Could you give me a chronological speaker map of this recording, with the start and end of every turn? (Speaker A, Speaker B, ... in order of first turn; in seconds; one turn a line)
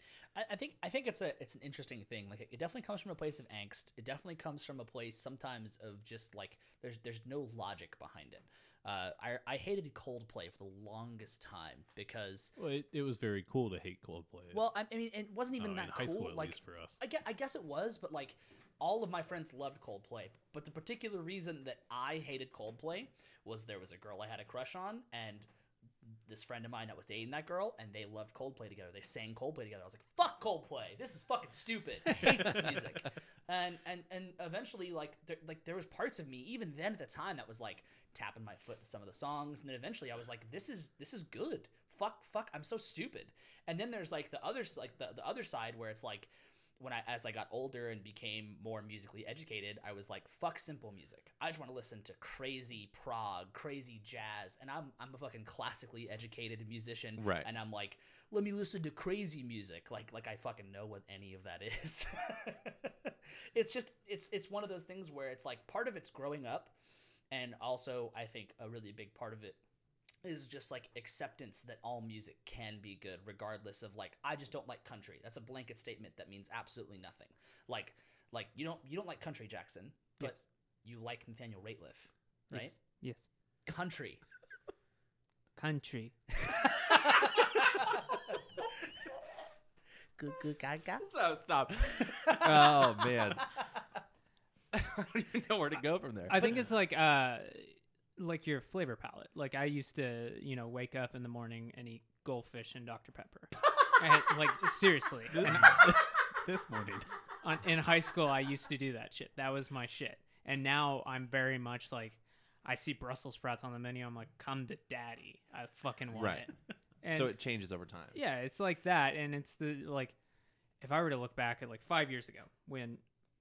Speaker A: 0.3-12.5
Speaker B: 12.6-14.6
Speaker A: 14.5-25.5
Speaker B: 15.6-17.0
Speaker A: 26.3-66.7
Speaker C: 32.2-32.8
Speaker C: 57.2-57.5
Speaker A: 67.3-69.6
Speaker A: 70.2-82.7
Speaker D: 82.5-83.2
Speaker A: 83.7-84.2
Speaker D: 85.5-86.1
Speaker A: 86.4-87.7
Speaker A: 90.2-91.1
Speaker C: 91.0-93.5
Speaker A: 92.0-92.9
Speaker C: 94.7-96.5
Speaker D: 96.3-105.9
Speaker B: 105.3-107.1
Speaker D: 107.4-117.3
Speaker C: 116.1-116.5
Speaker C: 117.1-118.2
Speaker D: 118.1-120.1
Speaker D: 120.8-123.0